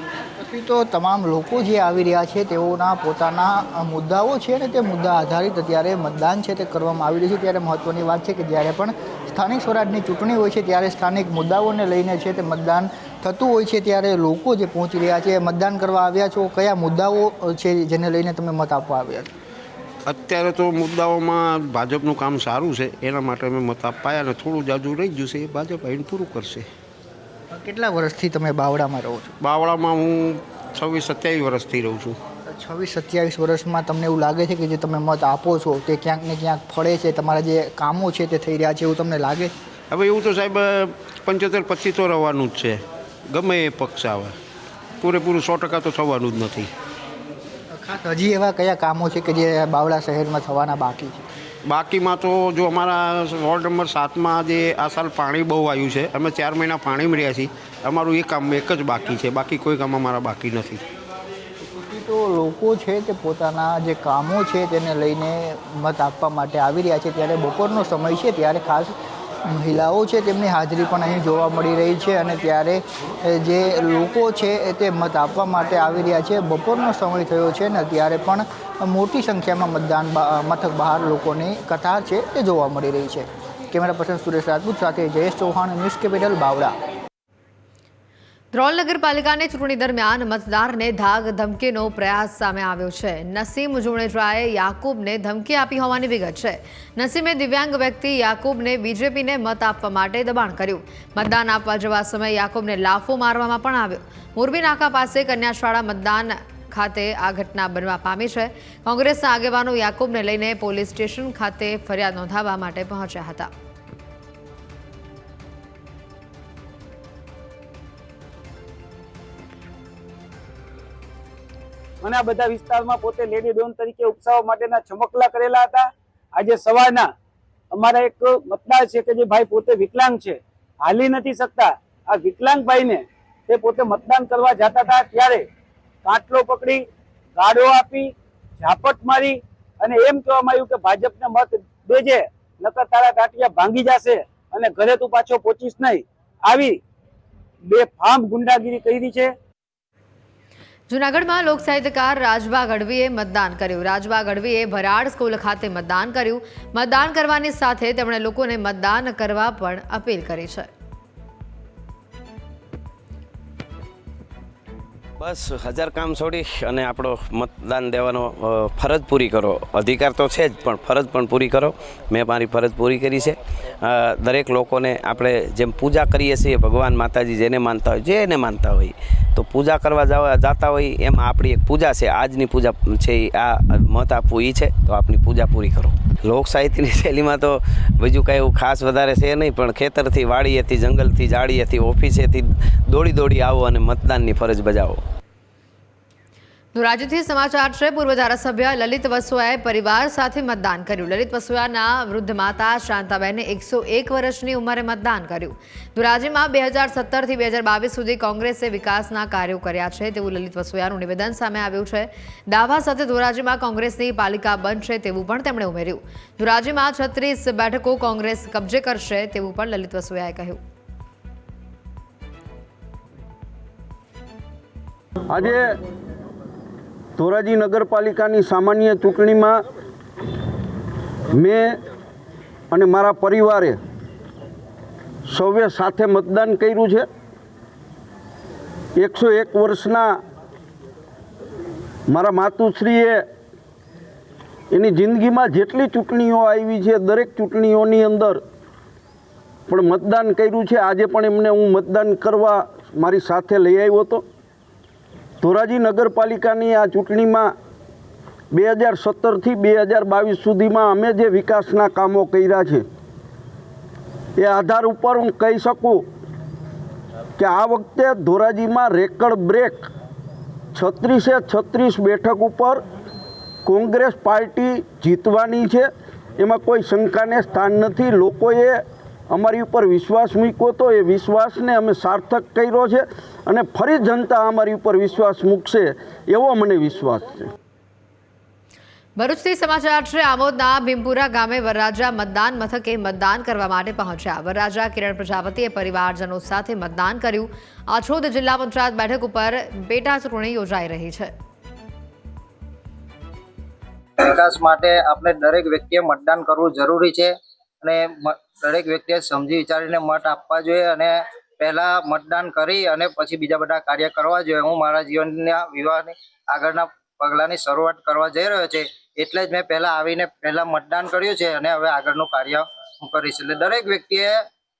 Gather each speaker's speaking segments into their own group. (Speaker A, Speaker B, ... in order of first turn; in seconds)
Speaker A: 0.4-19.3, 27.5-29.3, 32.5-39.5, 47.7-51.3, 61.6-68.9, 69.5-86.8
Speaker B: 20.1-26.7, 29.4-32.2, 39.9-44.4, 45.0-46.7, 51.7-60.8
Speaker C: 88.5-113.5, 150.9-160.7, 196.8-220.6, 289.2-301.3
Speaker D: 122.0-127.1, 127.7-135.4, 136.1-136.8, 137.4-146.8, 147.7-149.3
Speaker E: 165.2-195.0
Speaker F: 225.3-225.7, 227.2-229.6, 231.4-231.8, 232.7-233.8, 235.3-237.1, 239.0-240.2, 242.1-243.2, 244.7-248.4, 249.7-254.2, 255.4-257.5, 258.5-262.9, 264.4-266.1, 267.4-269.9, 270.8-272.8, 273.7-287.5
Speaker G: 304.2-324.4